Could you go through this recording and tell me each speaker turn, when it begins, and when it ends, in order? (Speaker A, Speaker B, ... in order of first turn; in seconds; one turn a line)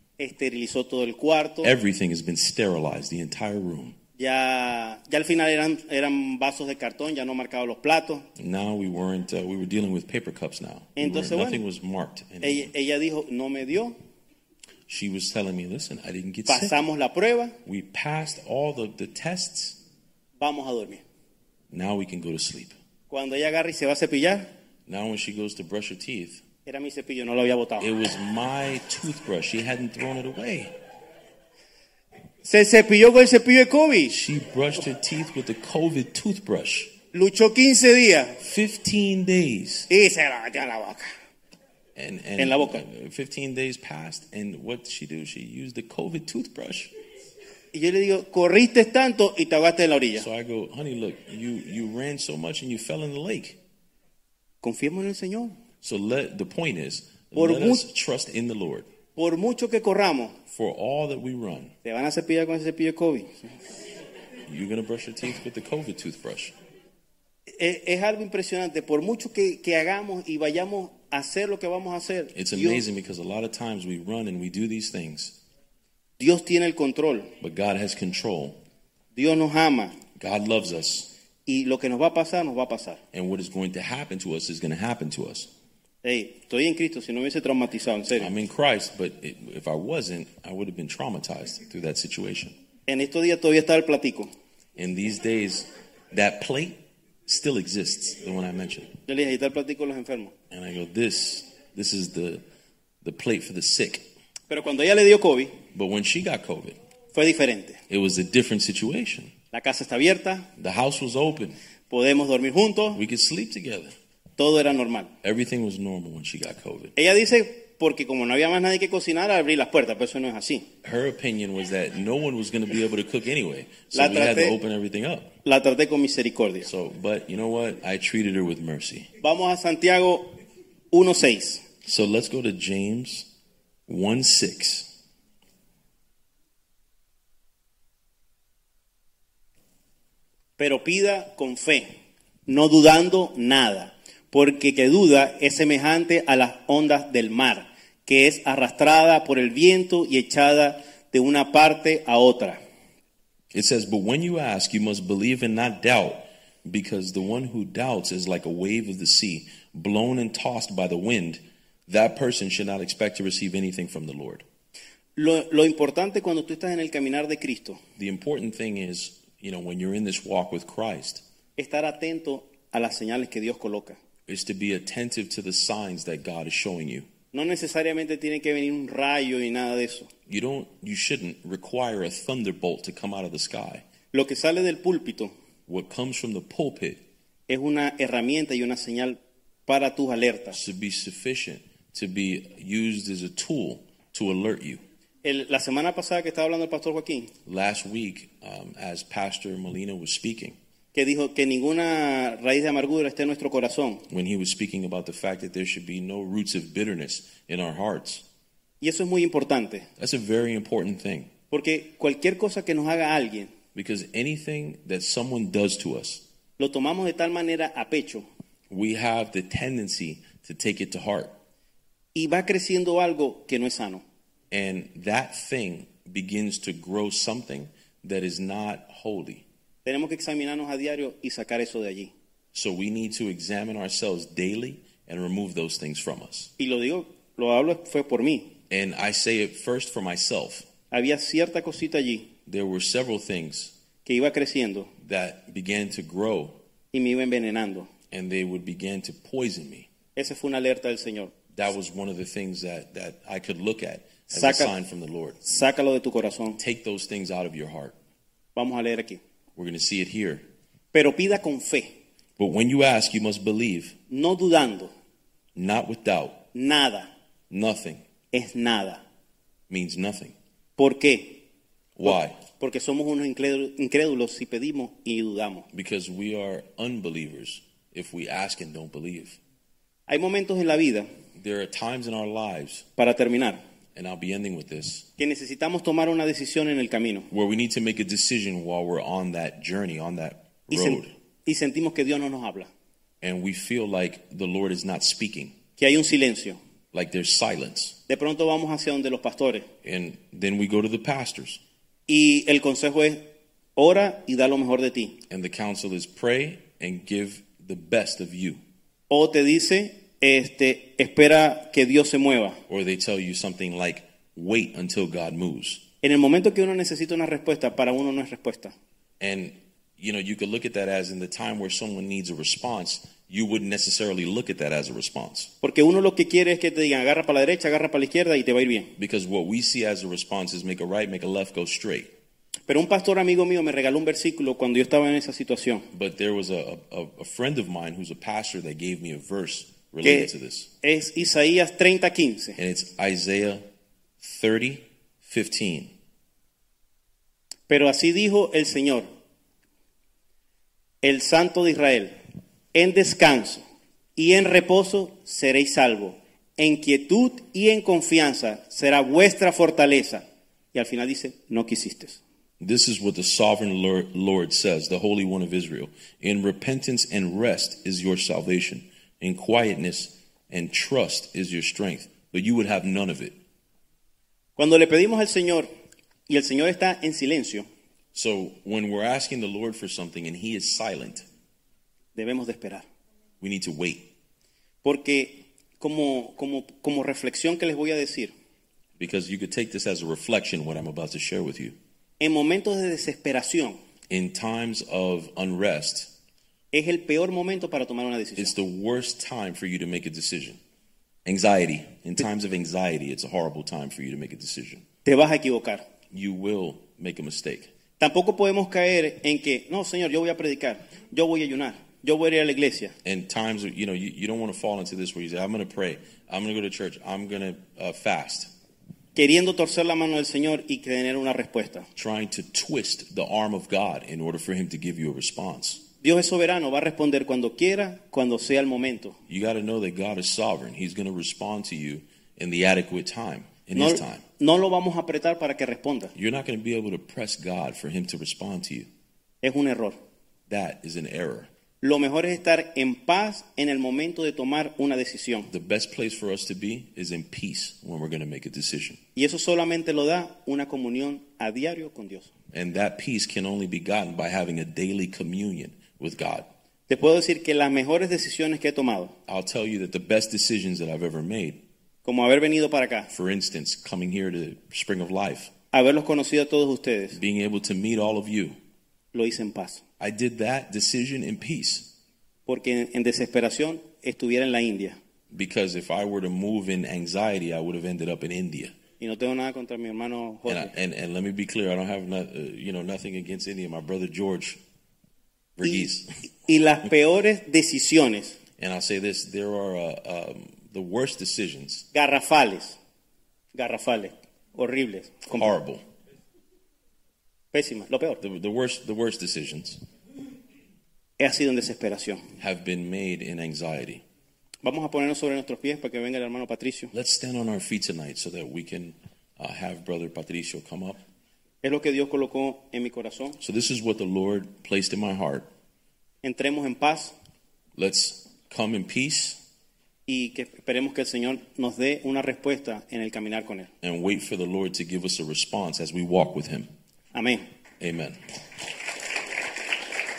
Speaker A: 0.2-1.7
Speaker B: 1.6-4.0
Speaker A: 4.2-8.3
Speaker B: 8.4-12.7
Speaker A: 11.0-11.6
Speaker A: 12.4-14.0
Speaker B: 14.9-16.8
Speaker A: 16.5-17.6
Speaker B: 17.6-19.8
Speaker A: 20.4-21.0
Speaker B: 21.7-22.8
Speaker A: 23.1-24.5
Speaker B: 24.9-26.4
Speaker A: 26.7-27.9
Speaker B: 27.8-30.7
Speaker A: 32.4-34.1
Speaker B: 34.1-36.9
Speaker A: 37.1-38.4
Speaker B: 38.4-39.9
Speaker A: 39.9-41.1
Speaker B: 42.0-46.9
Speaker A: 42.4-42.8
Speaker A: 47.7-50.3
Speaker B: 50.1-53.6
Speaker A: 54.6-55.6
Speaker B: 55.8-58.9
Speaker A: 57.3-57.9
Speaker A: 59.2-60.4
Speaker B: 60.5-61.8
Speaker A: 61.8-63.5
Speaker B: 64.5-66.5
Speaker A: 67.6-72.8
Speaker B: 72.3-75.4
Speaker A: 76.2-77.3
Speaker B: 77.4-78.6
Speaker A: 79.2-80.0
Speaker B: 80.2-81.1
Speaker A: 81.5-83.0
Speaker B: 83.1-85.5
Speaker A: 86.0-88.3
Speaker B: 88.2-92.6
Speaker A: 92.9-94.3
Speaker B: 94.8-99.0
Speaker A: 99.1-100.3
Speaker B: 100.5-102.4
Speaker B: 103.0-104.1
Speaker A: 104.5-105.6
Speaker B: 105.7-106.8
Speaker A: 107.1-107.8
Speaker B: 107.9-109.3
Speaker A: 109.5-110.5
Speaker B: 110.6-111.6
Speaker A: 111.9-113.0
Speaker B: 112.9-113.9
Speaker A: 114.4-115.1
Speaker B: 115.2-116.9
Speaker A: 117.0-120.7
Speaker B: 120.8-125.3
Speaker A: 123.9-124.6
Speaker A: 125.5-126.7
Speaker B: 126.6-129.1
Speaker A: 129.2-130.4
Speaker A: 130.9-131.7
Speaker B: 131.8-133.3
Speaker B: 133.9-134.9
Speaker A: 140.6-141.9
Speaker A: 142.5-152.6
Speaker B: 153.5-164.4
Speaker A: 165.2-167.8
Speaker B: 168.0-171.2
Speaker A: 171.6-174.0
Speaker B: 174.3-177.1
Speaker A: 177.3-180.1
Speaker B: 180.3-183.8
Speaker A: 184.1-185.3
Speaker B: 185.7-187.0
Speaker A: 187.5-190.6
Speaker B: 190.5-194.8
Speaker A: 195.2-197.3
Speaker B: 197.5-200.6
Speaker A: 200.9-204.1
Speaker B: 204.1-208.2
Speaker A: 208.8-209.9
Speaker B: 210.0-211.3
Speaker A: 211.5-213.5
Speaker B: 213.7-216.2
Speaker A: 216.6-218.3
Speaker B: 218.7-221.4
Speaker A: 222.2-224.0
Speaker B: 224.5-229.4
Speaker A: 229.8-232.1
Speaker B: 232.5-236.5
Speaker A: 236.6-238.6
Speaker B: 238.7-240.7
Speaker A: 240.9-242.3
Speaker B: 242.5-243.7
Speaker A: 244.1-244.9
Speaker B: 245.0-246.6
Speaker A: 246.9-247.9
Speaker B: 248.1-249.9
Speaker A: 250.2-251.3
Speaker B: 251.5-255.4
Speaker A: 254.3-254.7
Speaker A: 255.4-256.6
Speaker B: 256.6-258.0
Speaker A: 258.6-259.2
Speaker B: 259.6-260.4
Speaker A: 260.9-261.9
Speaker B: 262.4-264.0
Speaker A: 264.1-264.9
Speaker B: 265.6-266.5
Speaker A: 266.5-267.1
Speaker B: 267.5-268.0
Speaker A: 268.3-269.0
Speaker B: 269.7-270.4
Speaker A: 270.8-271.4
Speaker B: 272.0-272.4
Speaker A: 272.1-275.7
Speaker B: 275.7-279.4
Speaker A: 280.1-281.1
Speaker B: 281.4-282.9
Speaker A: 283.0-283.6
Speaker B: 283.9-285.1
Speaker A: 285.2-287.3
Speaker B: 287.3-291.1
Speaker A: 290.7-292.7
Speaker B: 293.2-295.6
Speaker A: 295.8-296.6
Speaker B: 296.9-298.0
Speaker A: 298.1-299.7
Speaker B: 299.8-301.6
Speaker A: 302.1-305.2
Speaker B: 305.3-308.6
Speaker A: 309.1-312.6
Speaker B: 312.7-315.9
Speaker A: 316.0-318.7
Speaker B: 319.2-325.5
Speaker A: 325.6-328.9
Speaker B: 329.0-332.1
Speaker A: 332.7-335.9
Speaker B: 335.9-340.7
Speaker A: 340.0-340.3
Speaker A: 340.8-342.6
Speaker B: 342.6-343.6
Speaker B: 344.2-345.9
Speaker A: 347.7-349.1
Speaker A: 351.0-352.1
Speaker A: 352.7-353.6
Speaker A: 354.2-362.2
Speaker B: 362.6-373.4
Speaker A: 374.6-375.7
Speaker A: 376.3-377.7
Speaker B: 378.1-381.2
Speaker A: 382.1-382.9
Speaker B: 383.4-384.1
Speaker A: 384.8-388.3
Speaker B: 389.0-391.8
Speaker A: 392.2-393.8
Speaker B: 394.1-396.1
Speaker A: 396.7-398.5
Speaker B: 398.4-400.6
Speaker B: 401.2-404.9
Speaker A: 405.1-405.9
Speaker B: 406.1-407.7
Speaker A: 408.0-413.0
Speaker B: 413.0-418.5
Speaker A: 419.1-421.9
Speaker B: 422.0-425.8
Speaker A: 426.0-429.2
Speaker B: 429.3-434.2
Speaker A: 433.8-436.1
Speaker B: 436.1-438.9
Speaker A: 439.4-440.0
Speaker B: 440.5-441.5
Speaker A: 441.8-445.5
Speaker B: 445.5-449.0
Speaker A: 449.2-452.3
Speaker B: 452.5-456.5
Speaker A: 456.9-459.1
Speaker B: 459.3-461.6
Speaker A: 462.0-463.1
Speaker B: 463.1-465.5
Speaker A: 465.7-467.2
Speaker B: 467.1-468.6
Speaker A: 469.1-469.8
Speaker B: 470.0-471.9
Speaker A: 472.5-475.0
Speaker B: 475.3-478.8
Speaker A: 479.0-480.7
Speaker B: 480.5-484.6
Speaker B: 485.6-486.1
Speaker A: 486.4-488.4
Speaker B: 488.6-491.9
Speaker A: 491.9-492.8
Speaker A: 493.5-495.5
Speaker B: 495.3-495.8
Speaker A: 497.5-498.2
Speaker B: 498.2-499.8
Speaker A: 501.2-502.2
Speaker B: 502.4-504.0
Speaker A: 504.6-506.9
Speaker B: 506.9-511.0
Speaker A: 511.6-513.4
Speaker B: 513.4-515.5
Speaker A: 516.2-517.1
Speaker B: 517.8-519.4
Speaker A: 520.1-523.7
Speaker B: 523.8-526.7
Speaker A: 527.1-527.5
Speaker B: 527.8-528.2